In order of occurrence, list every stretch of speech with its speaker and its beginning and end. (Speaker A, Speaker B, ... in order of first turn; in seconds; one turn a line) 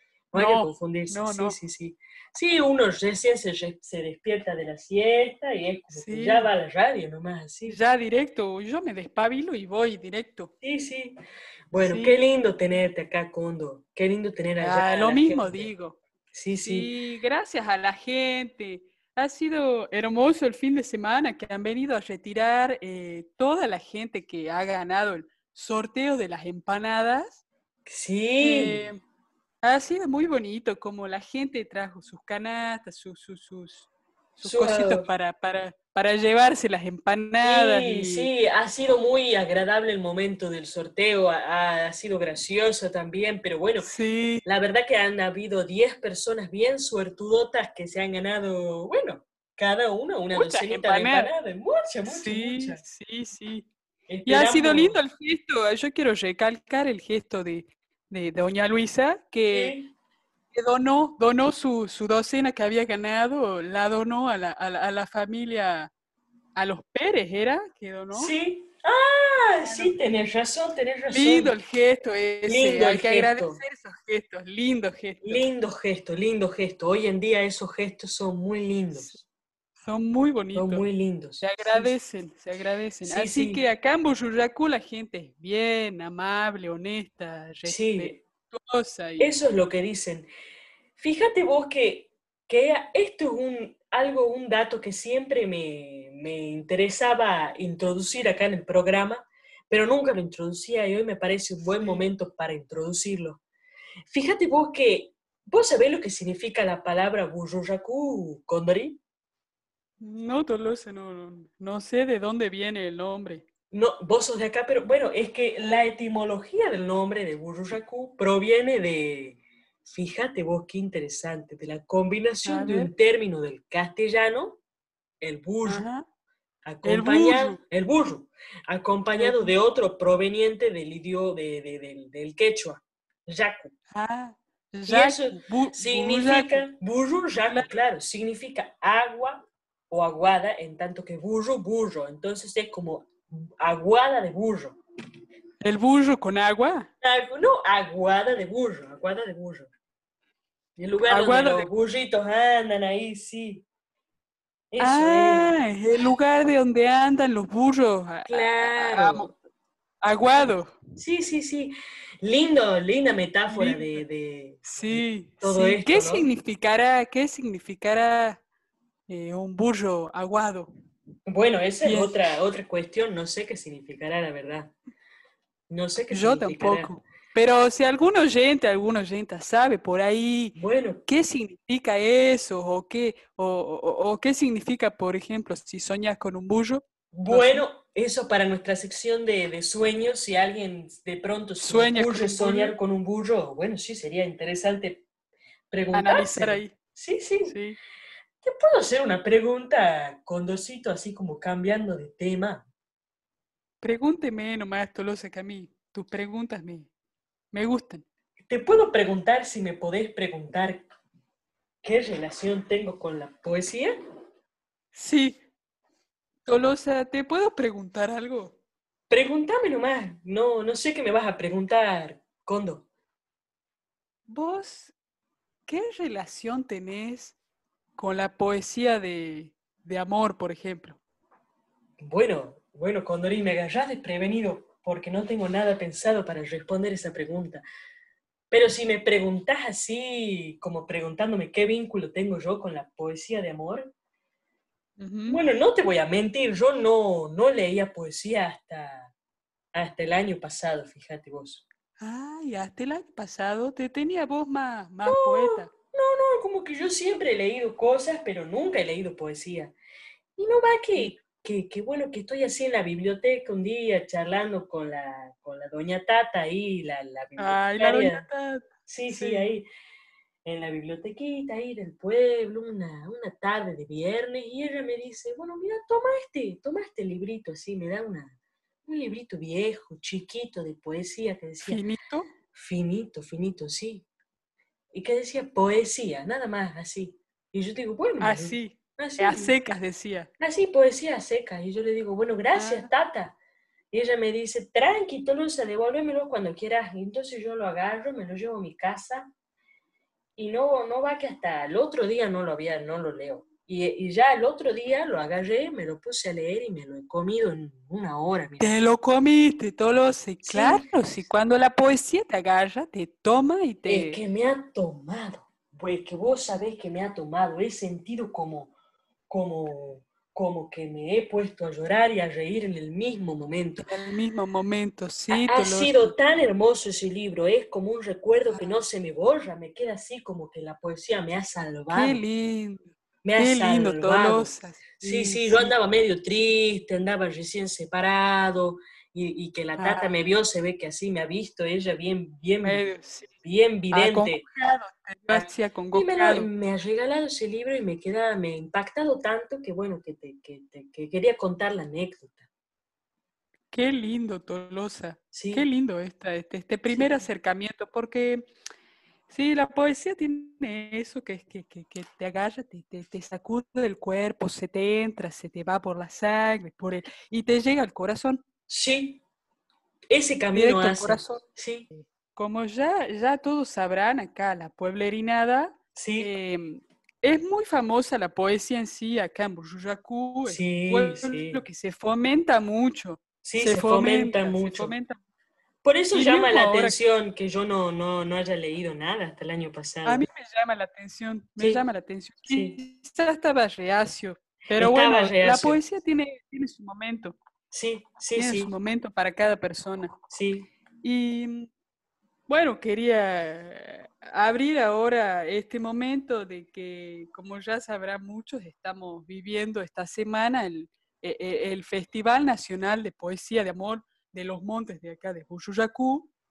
Speaker A: 0.3-7.8
Speaker B: 0.3-1.6
Speaker B: 5.9-6.5
Speaker B: 7.7-10.5
Speaker A: 10.6-11.2
Speaker A: 11.7-15.7
Speaker B: 11.8-12.2
Speaker B: 14.6-16.0
Speaker A: 16.3-16.9
Speaker B: 16.6-27.4
Speaker A: 27.9-28.9
Speaker B: 28.4-29.0
Speaker B: 29.6-38.3
Speaker A: 34.4-35.1
Speaker A: 37.4-43.9
Speaker B: 43.9-44.5
Speaker A: 44.5-52.8
Speaker B: 50.4-51.3
Speaker B: 52.0-53.7
Speaker A: 54.1-55.0
Speaker B: 54.3-59.8
Speaker A: 59.5-59.9
Speaker B: 60.5-65.9
Speaker B: 66.5-68.3
Speaker A: 68.1-71.5
Speaker B: 69.7-69.9
Speaker B: 71.1-75.4
Speaker A: 72.5-73.6
Speaker A: 75.2-79.2
Speaker B: 79.8-80.9
Speaker A: 80.5-82.0
Speaker B: 81.4-89.3
Speaker A: 83.0-83.6
Speaker A: 87.6-88.2
Speaker A: 89.2-90.3
Speaker A: 91.0-103.4
Speaker B: 101.6-102.0
Speaker A: 104.1-109.0
Speaker B: 110.0-113.5
Speaker A: 113.7-124.6
Speaker B: 122.5-122.9
Speaker A: 125.2-125.9
Speaker B: 125.7-126.0
Speaker A: 126.6-133.7
Speaker B: 126.8-127.6
Speaker B: 129.2-129.6
Speaker B: 133.9-136.6
Speaker A: 134.9-144.8
Speaker B: 145.6-146.9
Speaker A: 147.0-149.7
Speaker A: 150.8-153.6
Speaker B: 151.1-151.7
Speaker A: 154.7-155.5
Speaker B: 154.8-159.3
Speaker A: 158.3-159.3
Speaker B: 160.0-160.8
Speaker A: 160.9-166.3
Speaker B: 163.5-164.0
Speaker B: 164.7-168.4
Speaker B: 169.1-170.7
Speaker A: 171.3-174.7
Speaker B: 171.8-172.2
Speaker A: 175.7-176.9
Speaker B: 176.1-180.6
Speaker A: 180.6-181.0
Speaker B: 181.1-187.6
Speaker A: 187.1-195.1
Speaker B: 191.6-192.8
Speaker A: 195.7-197.6
Speaker B: 195.9-196.7
Speaker B: 197.5-197.8
Speaker A: 198.4-202.7
Speaker B: 203.8-206.9
Speaker B: 207.5-208.0
Speaker A: 208.5-210.9
Speaker A: 211.8-214.0
Speaker B: 214.9-215.4
Speaker B: 216.5-218.6
Speaker A: 219.1-222.8
Speaker B: 224.3-224.9
Speaker B: 225.7-227.3
Speaker B: 228.0-231.0
Speaker A: 232.0-237.6
Speaker A: 238.5-243.9
Speaker B: 245.0-245.4
Speaker A: 245.3-249.1
Speaker A: 249.7-251.7
Speaker B: 252.0-255.7
Speaker A: 255.1-259.7
Speaker A: 260.4-268.2
Speaker B: 267.4-269.5
Speaker A: 268.9-269.7
Speaker A: 270.4-278.4
Speaker A: 278.9-281.8
Speaker B: 281.7-282.3
Speaker A: 282.5-284.1
Speaker A: 284.9-289.5
Speaker B: 288.2-290.3
Speaker A: 290.4-293.4
Speaker B: 292.5-292.9
Speaker A: 293.9-299.3
Speaker A: 300.4-308.8
Speaker B: 308.6-314.2
Speaker A: 310.4-310.9
Speaker A: 313.9-318.7
Speaker A: 319.3-323.9
Speaker B: 323.8-326.1
Speaker A: 325.3-332.2
Speaker B: 331.9-335.7
Speaker A: 333.2-342.9
Speaker B: 339.8-340.1
Speaker B: 342.6-343.3
Speaker A: 343.4-344.4
Speaker B: 343.9-346.5
Speaker A: 345.3-352.4
Speaker B: 353.7-358.5
Speaker A: 355.3-355.7
Speaker A: 356.9-357.2
Speaker B: 359.3-368.4
Speaker A: 368.7-369.2
Speaker A: 370.1-371.9
Speaker B: 370.5-371.4
Speaker B: 372.0-385.2
Speaker A: 376.0-376.3
Speaker A: 380.4-381.6
Speaker A: 383.4-384.9
Speaker A: 385.8-390.2
Speaker B: 386.1-387.0
Speaker B: 390.1-397.4
Speaker A: 391.6-391.8
Speaker A: 392.5-392.8
Speaker A: 394.8-395.8
Speaker A: 397.7-398.7
Speaker B: 398.4-400.1
Speaker A: 400.3-400.7
Speaker B: 401.0-401.7
Speaker B: 402.5-416.3